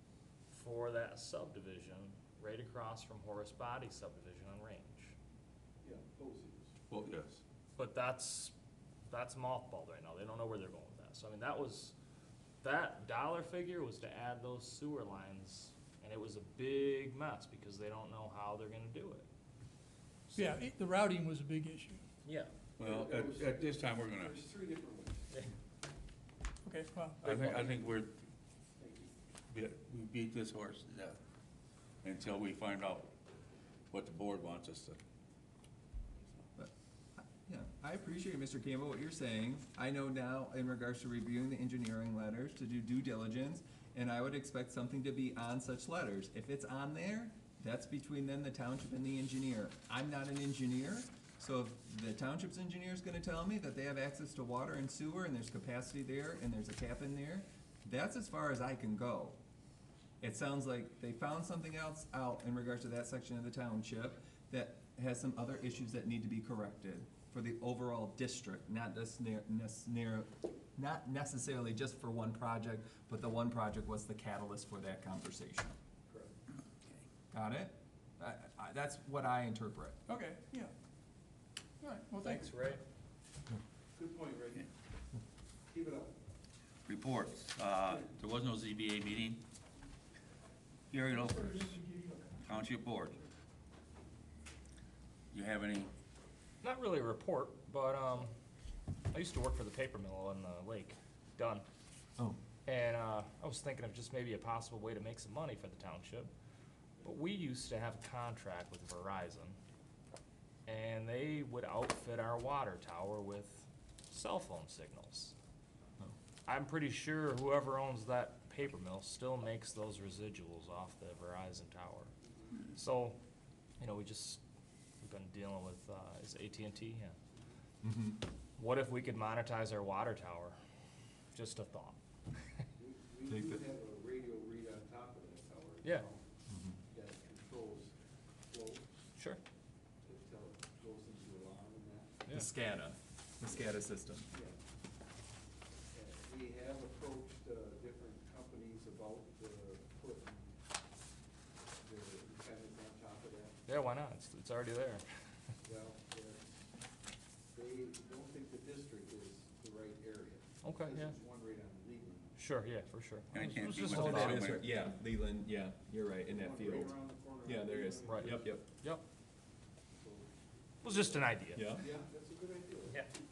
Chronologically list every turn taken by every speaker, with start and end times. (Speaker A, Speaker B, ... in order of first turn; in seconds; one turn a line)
Speaker A: 0.5-5.1
Speaker B: 5.8-7.1
Speaker C: 6.9-7.4
Speaker A: 7.8-8.5
Speaker A: 9.1-11.9
Speaker A: 12.6-19.3
Speaker D: 20.4-22.0
Speaker A: 22.2-22.5
Speaker C: 22.8-24.4
Speaker B: 22.8-25.2
Speaker D: 26.6-27.3
Speaker A: 27.2-27.7
Speaker C: 27.2-28.1
Speaker B: 28.8-29.1
Speaker C: 29.5-31.2
Speaker C: 32.0-33.1
Speaker C: 33.9-35.0
Speaker E: 36.6-59.4
Speaker E: 60.2-75.8
Speaker B: 76.1-76.3
Speaker E: 77.3-80.0
Speaker D: 80.1-80.7
Speaker D: 81.8-82.5
Speaker A: 82.2-82.8
Speaker B: 84.0-84.7
Speaker B: 85.7-86.1
Speaker C: 86.9-89.4
Speaker C: 90.9-91.8
Speaker D: 91.3-92.5
Speaker C: 92.4-93.2
Speaker C: 95.3-95.9
Speaker A: 96.6-98.3
Speaker A: 99.1-101.7
Speaker A: 102.7-106.3
Speaker A: 107.0-109.6
Speaker A: 110.7-115.3
Speaker A: 116.5-123.2
Speaker A: 123.8-124.4
Speaker A: 125.0-127.2
Speaker E: 127.8-128.2
Speaker A: 128.6-130.6
Speaker A: 131.3-132.0
Speaker B: 132.8-136.3
Speaker E: 133.3-133.6
Speaker A: 135.8-136.1
Speaker E: 136.5-136.8
Speaker B: 136.9-137.9
Speaker B: 138.5-139.0
Speaker B: 140.1-142.2
Speaker E: 142.3-144.3
Speaker B: 144.3-144.6
Speaker B: 145.9-150.5
Speaker B: 151.8-153.6
Speaker A: 153.7-155.0
Speaker B: 155.6-156.5
Speaker B: 157.5-162.3
Speaker A: 160.6-161.2
Speaker A: 162.4-164.5
Speaker C: 163.3-164.6
Speaker E: 163.8-168.7
Speaker B: 166.3-168.6
Speaker A: 168.1-169.0
Speaker B: 170.0-170.3
Speaker B: 170.8-173.1
Speaker A: 170.8-171.8
Speaker E: 171.6-171.8